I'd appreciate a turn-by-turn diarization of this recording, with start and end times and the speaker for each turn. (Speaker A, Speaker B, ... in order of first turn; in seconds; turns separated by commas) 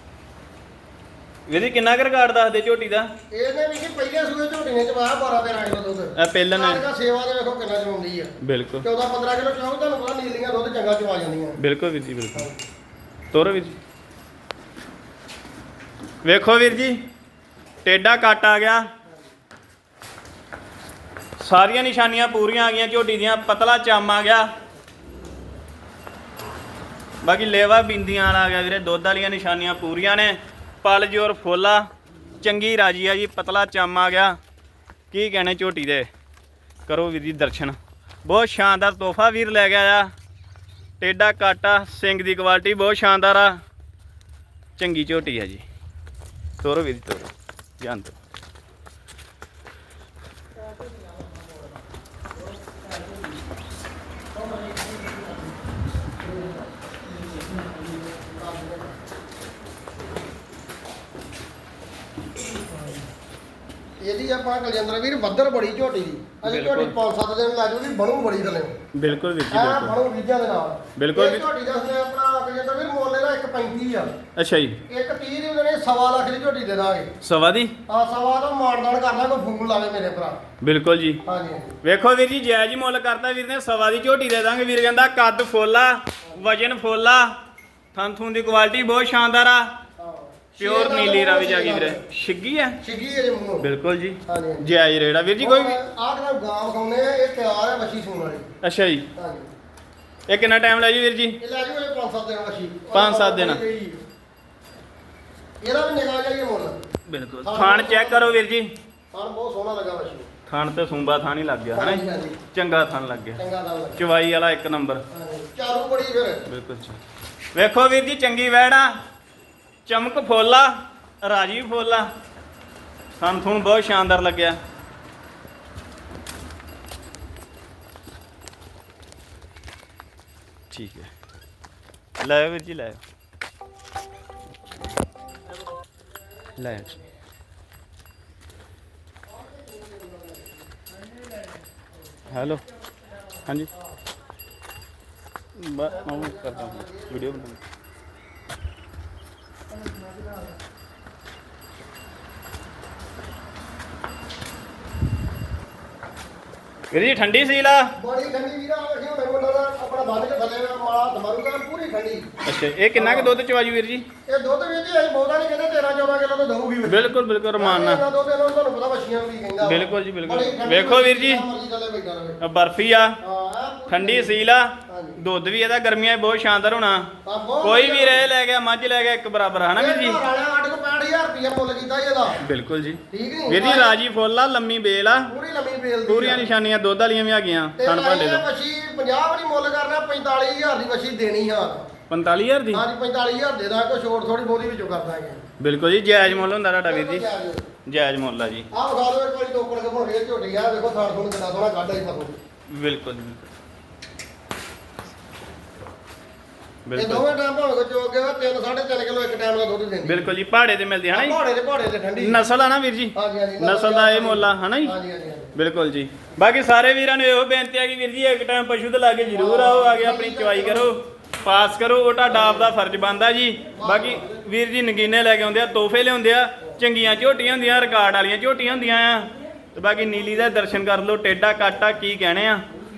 Speaker A: 1.5-3.1, Speaker B: 3.3-11.6, Speaker A: 6.2-6.8, Speaker A: 8.4-8.8, Speaker A: 11.6-12.5, Speaker B: 12.3-12.6, Speaker A: 13.3-13.8, Speaker A: 16.2-17.0, Speaker A: 17.9-18.9, Speaker A: 21.4-24.5, Speaker A: 27.2-31.9, Speaker A: 32.4-34.4, Speaker A: 35.1-36.1, Speaker A: 36.9-40.1, Speaker A: 41.0-43.6, Speaker A: 44.8-45.6, Speaker A: 46.6-48.2, Speaker B: 58.1-58.9, Speaker B: 64.0-68.8, Speaker A: 66.4-67.0, Speaker A: 68.9-70.0, Speaker B: 69.5-74.1, Speaker A: 71.0-71.4, Speaker A: 74.4-74.8, Speaker B: 74.9-77.1, Speaker A: 77.2-77.7, Speaker B: 77.9-80.4, Speaker A: 80.6-81.2, Speaker B: 81.2-81.8, Speaker A: 81.8-87.3, Speaker A: 87.9-89.7, Speaker B: 90.0-92.0, Speaker A: 90.6-92.8, Speaker B: 92.8-93.7, Speaker A: 93.6-95.8, Speaker B: 94.3-94.7, Speaker B: 95.4-98.5, Speaker A: 98.6-99.0, Speaker B: 99.2-99.5, Speaker A: 100.3-101.4, Speaker B: 101.4-104.0, Speaker A: 102.9-103.6, Speaker B: 105.6-106.8, Speaker A: 107.1-108.7, Speaker B: 107.4-108.4, Speaker B: 109.1-110.3, Speaker A: 110.5-113.4, Speaker B: 111.7-112.4, Speaker B: 113.4-114.0, Speaker A: 114.0-115.0, Speaker B: 115.1-116.4, Speaker A: 116.5-117.0, Speaker A: 117.5-119.0, Speaker A: 119.9-122.1, Speaker A: 123.2-124.6, Speaker A: 130.7-131.1, Speaker A: 132.2-133.0, Speaker A: 136.6-137.0, Speaker B: 139.3-140.7, Speaker A: 142.3-142.6, Speaker A: 143.4-143.7, Speaker A: 145.6-147.6, Speaker B: 145.8-147.5, Speaker B: 149.9-150.3, Speaker A: 156.9-157.9, Speaker B: 158.0-162.3, Speaker A: 162.4-164.1, Speaker B: 162.9-163.3, Speaker B: 164.3-172.4, Speaker A: 166.9-168.0, Speaker A: 169.6-171.4, Speaker A: 172.4-173.2, Speaker B: 173.2-174.4, Speaker A: 173.9-177.1, Speaker B: 174.9-175.2, Speaker B: 177.2-178.3, Speaker A: 177.6-180.2, Speaker B: 179.8-182.4, Speaker A: 182.4-185.3, Speaker B: 183.1-184.0, Speaker B: 185.3-186.5, Speaker A: 186.1-188.4, Speaker B: 187.8-191.9, Speaker A: 192.1-192.8, Speaker B: 192.7-195.4, Speaker A: 195.6-197.3, Speaker B: 196.2-197.7, Speaker A: 197.9-198.7, Speaker B: 198.7-202.4, Speaker A: 202.7-203.4, Speaker A: 206.9-207.3, Speaker B: 206.9-210.3, Speaker A: 210.0-211.4, Speaker B: 211.1-212.4, Speaker A: 212.2-214.9, Speaker B: 213.2-215.5, Speaker A: 215.5-232.6, Speaker B: 219.3-220.9, Speaker B: 222.3-222.7, Speaker B: 223.8-224.4